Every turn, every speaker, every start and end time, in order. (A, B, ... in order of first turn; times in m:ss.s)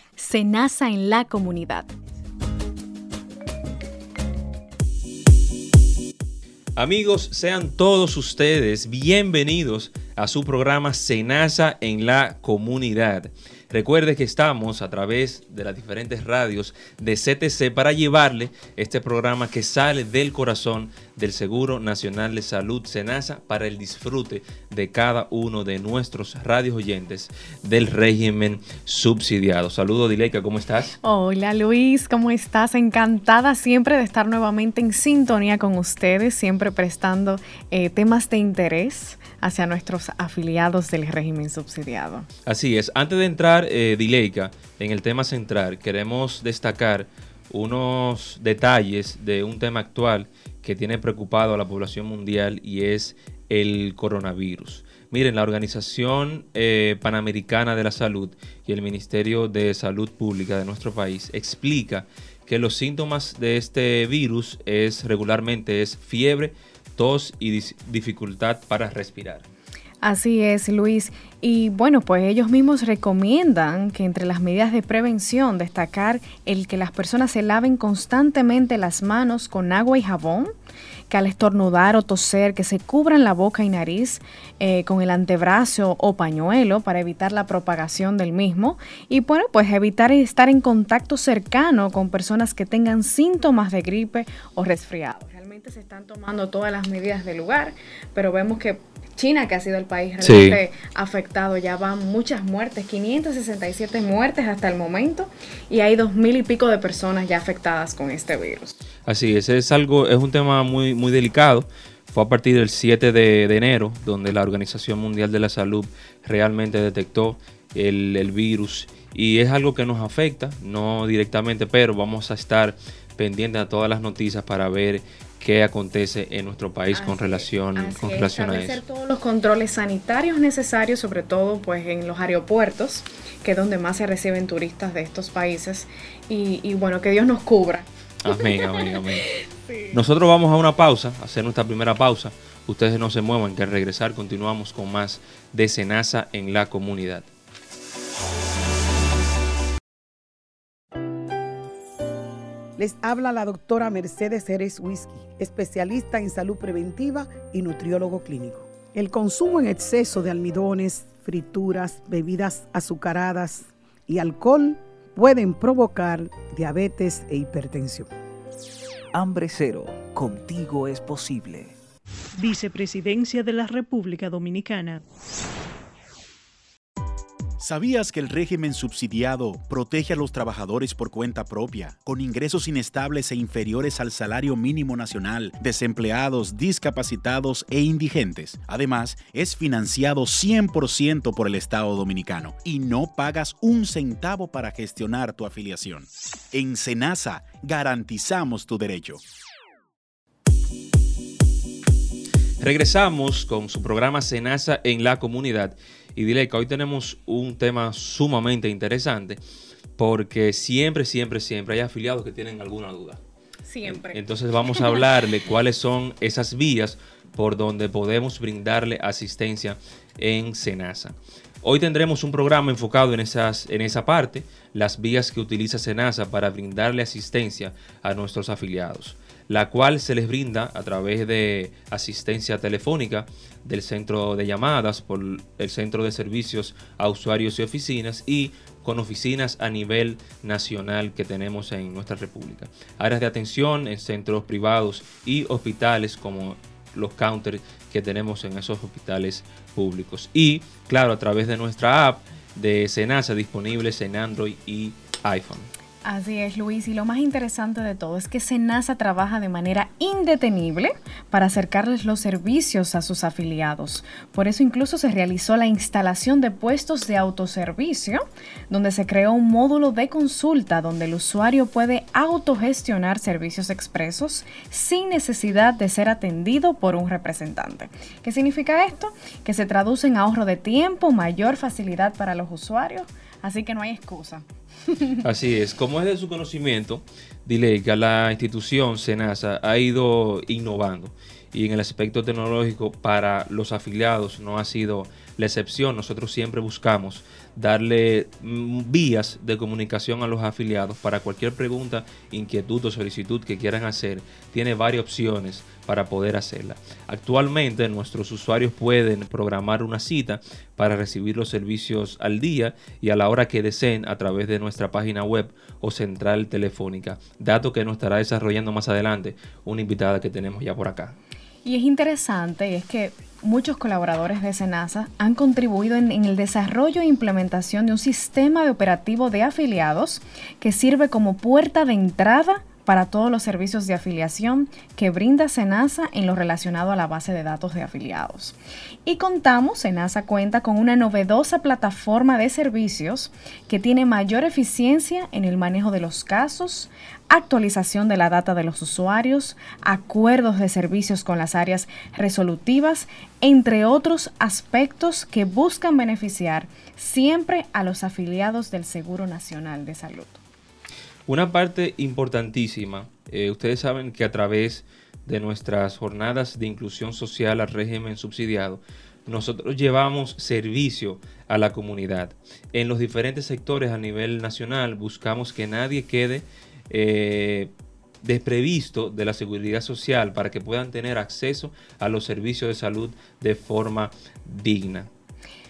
0:00.2-0:01.9 A
0:06.8-0:30.9 B
0:31.0-0:42.3 A
0:42.4-1:09.4 B
1:10.0-1:20.5 A
1:21.1-1:48.7 A
1:40.2-1:40.6 B
1:49.0-2:08.8 B
2:06.9-2:20.0 A
2:18.2-2:19.3 B
2:19.9-2:27.3 B
2:32.8-2:48.1 C
2:49.1-2:51.8 D
2:52.3-2:55.0 E
2:57.6-3:19.2 F
3:22.6-3:29.4 B
3:30.0-3:33.2 B
3:33.6-3:35.0 A
3:33.8-4:15.7 B
4:16.0-4:45.2 A
4:45.2-5:21.2 B
5:21.6-5:38.5 A
5:39.0-6:00.4 A
6:01.3-6:25.1 B